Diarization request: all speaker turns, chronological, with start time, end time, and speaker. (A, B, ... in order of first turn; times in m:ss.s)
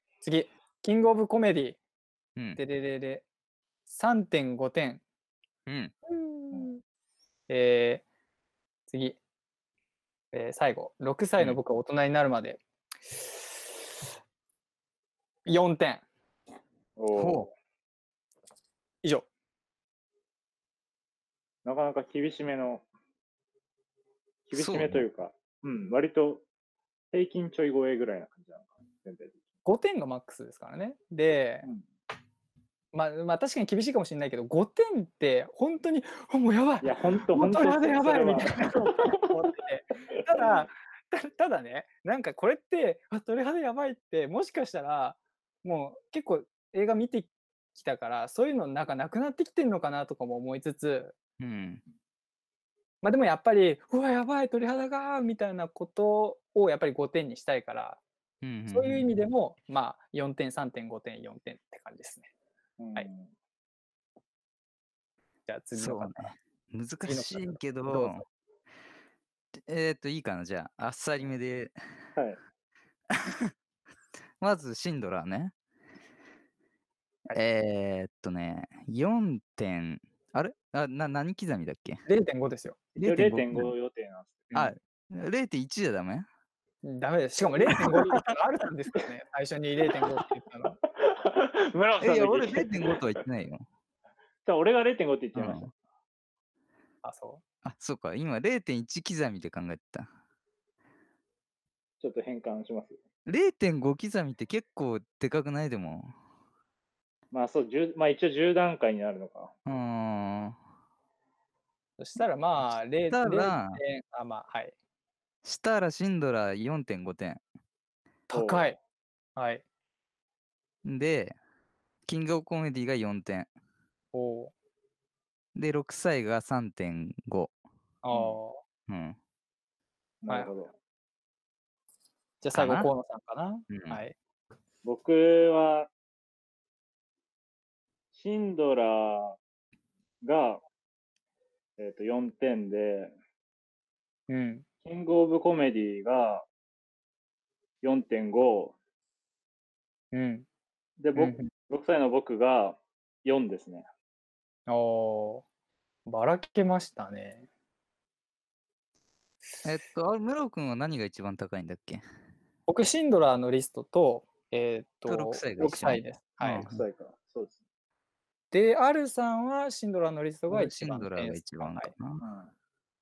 0:00.2-0:01.8 A
0:02.6-0:03.2 A
0:03.9-0:05.0 A
0:05.7-0:05.9 B
0:06.1-0:06.8 A
0:07.5-0:08.0 A
0:08.9-0:09.2 A
0:10.3-0:12.6 A
0:15.4-0:16.0 A
0:17.0-0:17.5 C
0:17.2-0:17.5 B
0:21.6-0:22.9 C
0:24.5-0:26.4 C
0:24.6-0:25.0 B
0:27.1-0:29.4 C
0:29.6-0:31.7 A
0:32.9-0:51.1 A
0:36.8-0:39.5 C
0:51.4-0:51.8 B
0:53.0-0:58.0 A
0:58.4-0:59.2 B
0:58.7-1:02.3 A
1:02.8-1:03.3 C
1:05.5-1:06.3 A
1:05.8-1:08.2 B
1:07.0-1:08.2 A
1:09.6-1:11.7 B
1:13.1-1:13.5 B
1:14.4-1:15.6 B
1:17.3-1:22.0 B
1:22.0-1:22.8 A
1:23.0-1:23.7 B
1:23.0-1:24.5 C
1:24.5-1:26.3 B
1:26.8-1:30.8 A
1:27.7-1:28.1 C
1:27.8-1:28.2 B
1:31.0-1:33.0 C
1:32.0-1:33.6 B
1:34.4-1:35.7 C
1:35.4-1:35.7 B
1:37.0-1:37.4 A
1:37.6-1:40.1 B
1:42.0-1:43.0 C
1:43.3-1:46.1 B
1:47.3-1:49.5 C
1:49.6-1:50.6 B
1:52.0-1:54.7 A
1:53.1-1:53.8 B
1:55.4-1:57.4 B
1:58.3-1:58.8 A
1:58.3-1:58.7 C
1:59.4-1:59.6 A
2:00.8-2:01.4 B
2:02.0-2:03.5 B
2:04.1-2:04.5 A
2:05.6-2:07.5 B
2:08.0-2:08.6 A
2:08.1-2:08.4 C
2:08.9-2:09.2 B
2:10.2-2:10.7 C
2:12.4-2:14.1 A
2:12.5-2:12.9 B
2:13.7-2:14.0 B
2:14.8-2:15.9 C
2:18.1-2:19.4 C
2:20.2-2:20.6 C
2:21.8-2:23.1 C
2:24.3-2:24.6 A
2:24.8-2:26.5 C
2:27.8-2:28.8 C
2:30.1-2:30.4 A
2:31.0-2:33.9 C
2:31.2-2:31.5 A
2:34.7-2:35.4 A
2:36.0-2:37.5 A
2:39.6-2:42.0 B
2:42.7-2:46.8 A
2:45.0-2:46.8 B
2:46.6-2:47.6 C
2:48.5-2:51.9 A
2:50.5-2:52.2 B
2:52.2-2:52.5 C